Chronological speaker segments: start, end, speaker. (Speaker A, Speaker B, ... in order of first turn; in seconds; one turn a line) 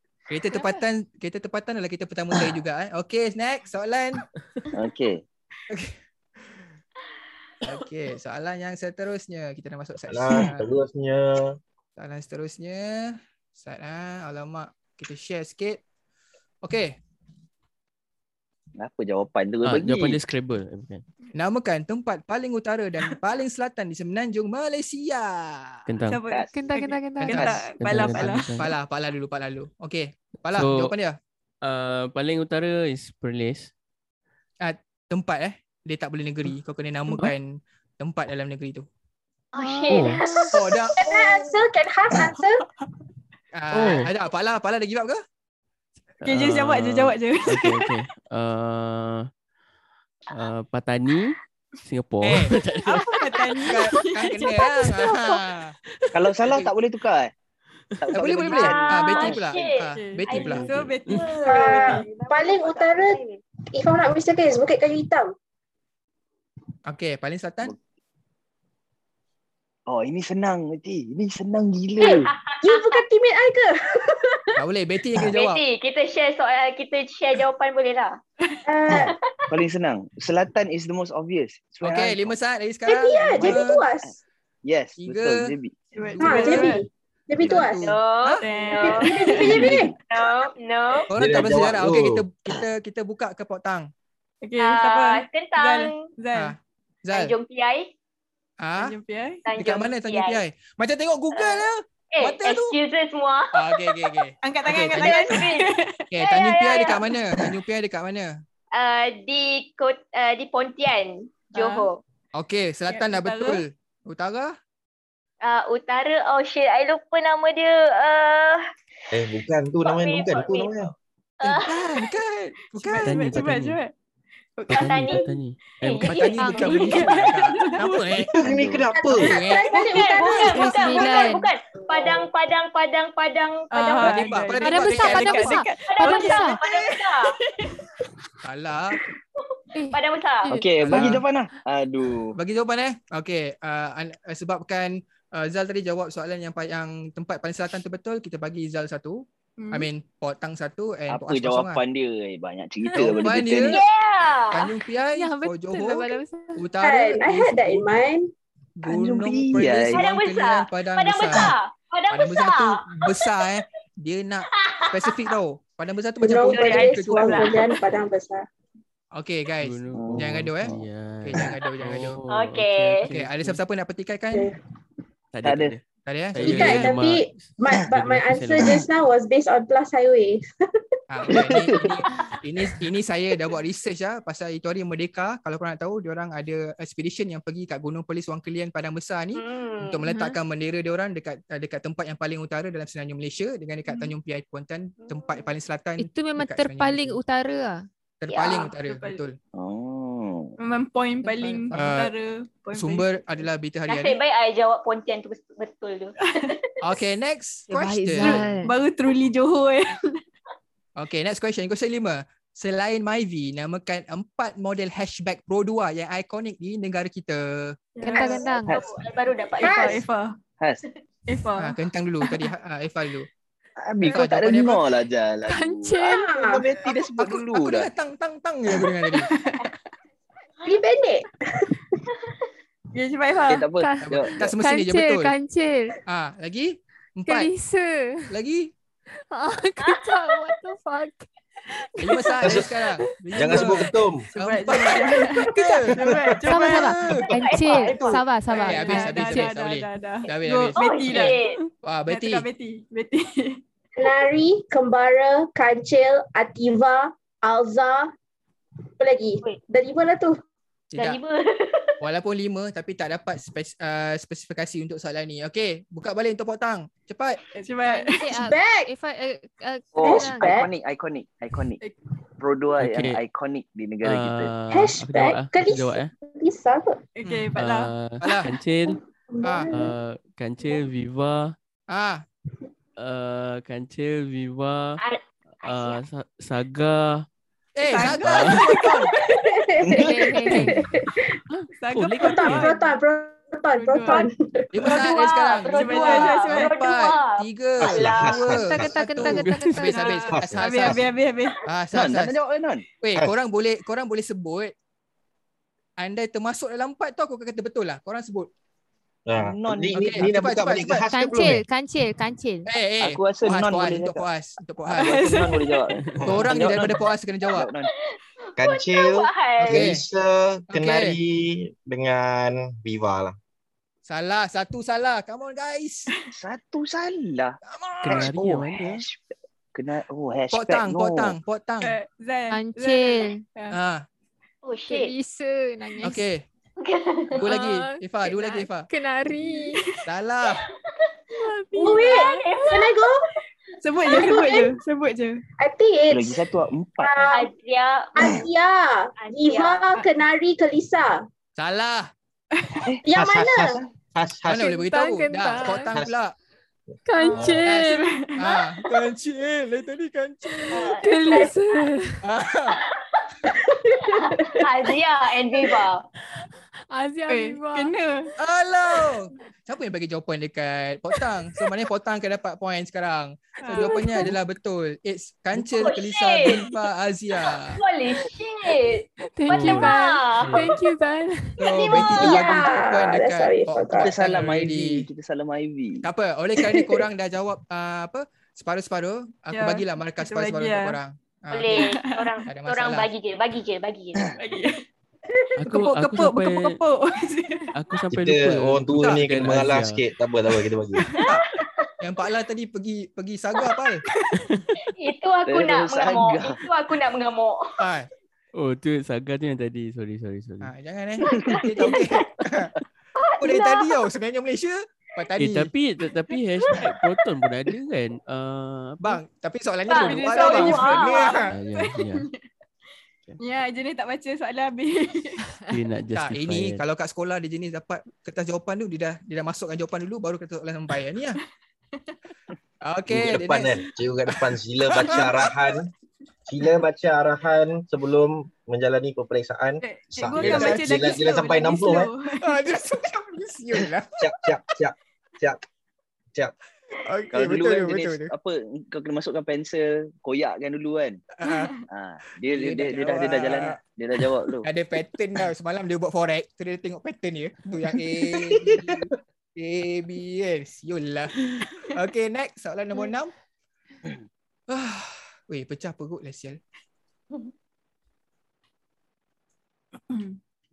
Speaker A: 0.3-4.3
Speaker B: 4.7-5.2
Speaker A: 5.7-6.0
Speaker A: 7.6-10.7
Speaker C: 10.1-11.6
Speaker A: 12.0-15.8
Speaker A: 16.6-17.0
Speaker B: 18.8-20.2
Speaker D: 19.6-21.0
Speaker A: 21.3-25.9
Speaker D: 25.9-26.2
Speaker E: 26.1-28.6
Speaker F: 26.5-27.5
Speaker A: 27.2-31.2
Speaker D: 27.8-28.7
Speaker D: 30.5-30.9
Speaker D: 31.6-33.7
Speaker A: 34.6-38.9
Speaker G: 39.5-40.6
Speaker F: 39.6-40.1
Speaker D: 39.9-40.2
Speaker A: 40.5-41.5
Speaker H: 40.6-42.7
Speaker A: 43.5-45.2
Speaker D: 43.7-44.1
Speaker D: 46.2-49.3
Speaker E: 46.2-47.9
Speaker D: 50.3-53.0
Speaker A: 52.2-52.6
Speaker E: 52.8-55.4
Speaker A: 53.6-55.8
Speaker B: 56.1-57.3
Speaker B: 58.0-59.6
Speaker A: 58.1-60.7
Speaker G: 58.6-63.4
Speaker E: 59.9-62.1
Speaker D: 60.3-61.2
Speaker H: 61.5-63.2
Speaker H: 63.7-65.3
Speaker A: 66.9-67.8
Speaker B: 69.9-72.3
Speaker G: 72.0-73.0
Speaker H: 72.6-74.5
Speaker A: 74.6-75.6
Speaker G: 75.3-78.2
Speaker H: 78.7-79.2
Speaker B: 78.9-82.3
Speaker G: 78.9-79.5
Speaker A: 81.8-83.8
Speaker H: 82.9-84.2
Speaker B: 83.4-84.1
Speaker B: 84.6-85.8
Speaker A: 85.0-86.8
Speaker E: 85.9-86.8
Speaker H: 86.2-87.8
Speaker A: 87.4-88.5
Speaker G: 87.8-91.1
Speaker E: 88.4-89.8
Speaker H: 88.8-89.9
Speaker B: 89.4-90.0
Speaker A: 91.1-93.9
Speaker C: 91.2-92.2
Speaker E: 94.4-96.6
Speaker G: 94.6-96.1
Speaker A: 96.3-97.3
Speaker G: 97.1-97.9
Speaker A: 98.6-99.0
Speaker E: 98.8-99.4
Speaker G: 99.5-100.4
Speaker A: 99.6-102.8
Speaker G: 101.3-103.6
Speaker A: 103.5-105.4
Speaker E: 104.4-106.0
Speaker G: 104.9-105.7
Speaker A: 106.1-108.4
Speaker G: 106.2-107.1
Speaker G: 108.7-112.0
Speaker E: 111.5-111.9
Speaker A: 112.4-114.6
Speaker E: 112.9-113.6
Speaker G: 115.4-118.7
Speaker C: 119.1-120.9
Speaker G: 119.8-121.7
Speaker A: 121.4-123.4
Speaker E: 122.7-123.9
Speaker D: 123.0-123.8
Speaker E: 124.6-125.8
Speaker D: 124.7-126.1
Speaker G: 124.7-125.2
Speaker G: 125.8-127.1
Speaker A: 126.0-128.3
Speaker F: 126.3-127.0
Speaker E: 126.4-128.5
Speaker C: 128.4-129.3
Speaker B: 128.4-128.8
Speaker H: 128.9-131.0
Speaker A: 129.1-130.6
Speaker E: 129.7-130.0
Speaker G: 129.8-134.3
Speaker F: 130.4-131.5
Speaker H: 131.9-132.3
Speaker E: 133.7-136.6
Speaker A: 134.0-135.6
Speaker F: 134.6-136.6
Speaker G: 135.8-137.3
Speaker A: 138.4-139.0
Speaker F: 139.7-140.7
Speaker G: 139.9-140.5
Speaker B: 140.5-142.4
Speaker A: 140.8-141.2
Speaker A: 142.4-151.8
Speaker E: 149.6-149.9
Speaker B: 151.1-153.8
Speaker A: 152.9-153.8
Speaker G: 153.6-154.7
Speaker A: 154.5-157.9
Speaker F: 155.1-156.7
Speaker H: 156.8-158.3
Speaker A: 158.8-161.5
Speaker B: 158.8-160.0
Speaker G: 159.9-163.2
Speaker A: 162.1-167.5
Speaker G: 164.5-165.2
Speaker H: 166.2-168.5
Speaker G: 166.5-167.6
Speaker E: 166.6-167.5
Speaker A: 169.2-172.2
Speaker D: 169.6-173.6
Speaker B: 169.9-170.9
Speaker G: 172.3-173.1
Speaker A: 173.1-174.5
Speaker D: 175.3-175.8
Speaker B: 175.4-175.8
Speaker A: 176.1-176.9
Speaker D: 176.3-178.8
Speaker H: 176.4-180.4
Speaker A: 181.1-197.2
Speaker B: 181.3-182.0
Speaker G: 189.3-190.0
Speaker F: 190.1-190.4
Speaker G: 195.0-195.4
Speaker F: 196.0-197.9
Speaker A: 198.2-199.4
Speaker E: 198.8-199.2
Speaker B: 199.5-200.6
Speaker E: 200.6-203.2
Speaker F: 201.2-201.9
Speaker A: 201.7-202.1
Speaker A: 202.7-204.2
Speaker G: 203.9-206.6
Speaker E: 206.2-206.5
Speaker A: 206.8-208.4
Speaker F: 207.7-208.7
Speaker E: 208.2-210.2
Speaker A: 211.0-217.8
Speaker E: 218.0-218.5
Speaker F: 218.0-218.8
Speaker G: 218.7-220.0
Speaker E: 219.5-220.4
Speaker H: 219.6-220.0
Speaker E: 221.3-222.4
Speaker A: 221.6-223.3
Speaker B: 223.8-227.9
Speaker A: 224.0-224.8
Speaker F: 225.5-226.5
Speaker H: 226.0-226.7
Speaker A: 226.9-229.3
Speaker E: 229.2-229.7
Speaker H: 230.6-232.1
Speaker E: 232.9-233.7
Speaker B: 233.5-234.5
Speaker F: 233.8-236.0
Speaker A: 234.0-235.3
Speaker A: 236.1-237.5
Speaker F: 237.3-238.3
Speaker A: 238.3-238.7
Speaker F: 239.3-242.6
Speaker G: 239.8-240.5
Speaker A: 242.0-247.3
Speaker C: 242.4-242.7
Speaker C: 243.3-244.2
Speaker E: 243.5-243.8
Speaker E: 244.3-251.4
Speaker F: 246.4-249.5
Speaker G: 247.2-248.2
Speaker A: 248.5-250.8
Speaker G: 250.8-251.6
Speaker A: 251.8-252.5
Speaker E: 252.1-253.6
Speaker H: 254.0-258.1
Speaker H: 259.0-260.4
Speaker A: 260.9-261.2
Speaker G: 261.0-262.0
Speaker A: 262.0-267.4
Speaker E: 267.5-268.4
Speaker F: 267.9-270.6
Speaker H: 268.3-268.9
Speaker B: 269.9-271.8
Speaker H: 270.0-270.7
Speaker B: 272.4-274.5
Speaker D: 272.8-273.2
Speaker D: 274.0-276.1
Speaker H: 274.7-277.0
Speaker E: 277.2-277.9
Speaker A: 277.2-277.5
Speaker D: 277.6-279.0
Speaker A: 278.2-278.5
Speaker H: 278.9-280.0
Speaker A: 279.4-279.7
Speaker D: 279.7-281.6
Speaker A: 281.9-282.2
Speaker D: 283.0-285.0
Speaker G: 285.0-286.0
Speaker D: 285.6-287.3
Speaker A: 287.8-289.1
Speaker E: 287.8-289.1
Speaker D: 288.0-288.6
Speaker H: 289.3-291.4
Speaker B: 289.8-290.3
Speaker F: 289.9-290.9
Speaker E: 291.8-292.9
Speaker D: 291.9-292.7
Speaker H: 292.2-294.9
Speaker E: 293.8-294.3
Speaker A: 294.7-301.0
Speaker E: 294.8-296.8
Speaker G: 294.9-298.6
Speaker C: 297.8-298.9
Speaker F: 298.5-300.3
Speaker D: 299.2-299.8
Speaker E: 299.8-301.6
Speaker C: 300.3-301.0
Speaker A: 301.7-302.4
Speaker B: 301.9-302.9
Speaker A: 303.0-304.7
Speaker A: 306.0-308.5
Speaker C: 309.3-311.6
Speaker B: 309.3-310.3
Speaker A: 309.9-311.0
Speaker F: 311.1-312.7
Speaker A: 312.7-315.3
Speaker B: 313.0-314.2
Speaker E: 314.9-315.9
Speaker B: 315.0-317.9
Speaker A: 316.2-317.7
Speaker G: 317.9-319.9
Speaker C: 318.6-323.4
Speaker A: 319.6-320.0
Speaker A: 320.7-321.2
Speaker A: 324.1-326.1
Speaker B: 326.3-329.2
Speaker A: 327.7-328.3
Speaker D: 328.0-329.0
Speaker B: 329.8-331.4
Speaker A: 330.5-331.9
Speaker E: 331.8-333.8
Speaker F: 332.5-333.4
Speaker A: 333.7-334.1
Speaker G: 334.6-335.1
Speaker F: 334.9-336.3
Speaker A: 336.0-336.4
Speaker G: 336.8-337.5
Speaker A: 337.4-338.9
Speaker F: 337.4-339.9
Speaker A: 340.1-340.7
Speaker F: 341.4-342.8
Speaker E: 341.8-342.3
Speaker H: 341.8-343.3
Speaker G: 342.0-343.0
Speaker E: 343.8-345.4
Speaker H: 344.1-344.8
Speaker H: 345.6-346.4
Speaker B: 346.1-347.3
Speaker H: 347.0-347.5
Speaker G: 347.3-348.4
Speaker H: 348.2-351.3
Speaker G: 349.2-350.0
Speaker A: 351.6-352.1
Speaker E: 352.6-352.9
Speaker H: 353.1-353.8
Speaker C: 353.1-354.7
Speaker A: 354.5-356.4
Speaker F: 354.5-355.9
Speaker F: 357.1-358.1
Speaker E: 357.2-358.6
Speaker C: 357.3-357.6
Speaker A: 357.6-360.9
Speaker G: 360.7-361.5
Speaker F: 360.8-362.2
Speaker A: 362.2-362.8
Speaker G: 362.7-363.5
Speaker G: 364.0-366.1
Speaker F: 366.9-367.9
Speaker E: 367.3-368.3
Speaker A: 368.4-377.8
Speaker E: 373.6-374.3
Speaker G: 375.6-376.7
Speaker G: 377.6-380.8
Speaker F: 379.2-382.4
Speaker D: 379.5-380.8
Speaker A: 381.6-385.1
Speaker G: 381.8-382.4
Speaker H: 381.9-384.1
Speaker B: 383.9-386.1
Speaker A: 386.0-391.9
Speaker H: 386.6-387.0
Speaker E: 389.5-391.0
Speaker G: 391.5-394.3
Speaker E: 391.8-392.4
Speaker A: 392.5-393.1
Speaker E: 394.4-394.8
Speaker D: 395.6-396.8
Speaker E: 395.6-397.7
Speaker D: 397.7-400.0
Speaker C: 398.1-401.1
Speaker A: 399.0-399.3
Speaker E: 400.9-401.4
Speaker G: 401.6-401.9
Speaker A: 402.0-404.0
Speaker E: 404.2-404.5
Speaker D: 404.4-404.7
Speaker G: 404.9-407.8
Speaker B: 405.5-406.7
Speaker A: 407.8-408.1
Speaker D: 408.5-410.7
Speaker A: 410.6-412.7
Speaker G: 411.2-412.3
Speaker B: 411.3-411.9
Speaker G: 413.2-414.0
Speaker A: 413.4-415.7
Speaker D: 415.4-419.2
Speaker G: 416.6-416.9
Speaker A: 419.0-421.5
Speaker G: 419.9-421.5
Speaker E: 419.9-422.4
Speaker D: 421.5-422.3
Speaker E: 423.4-425.4
Speaker D: 425.7-426.8
Speaker A: 426.1-431.4
Speaker A: 432.8-433.8
Speaker C: 433.1-435.9
Speaker E: 434.9-435.5
Speaker A: 435.1-435.5
Speaker C: 436.5-442.1
Speaker E: 439.8-442.6
Speaker A: 440.4-441.1
Speaker A: 442.4-444.1
Speaker C: 444.2-445.6
Speaker A: 447.0-448.3
Speaker B: 447.3-451.2
Speaker A: 451.4-451.7
Speaker E: 451.4-451.9
Speaker B: 451.9-454.7
Speaker A: 452.5-453.8
Speaker A: 454.6-459.1
Speaker A: 459.6-461.4
Speaker A: 461.9-463.3
Speaker A: 464.7-466.6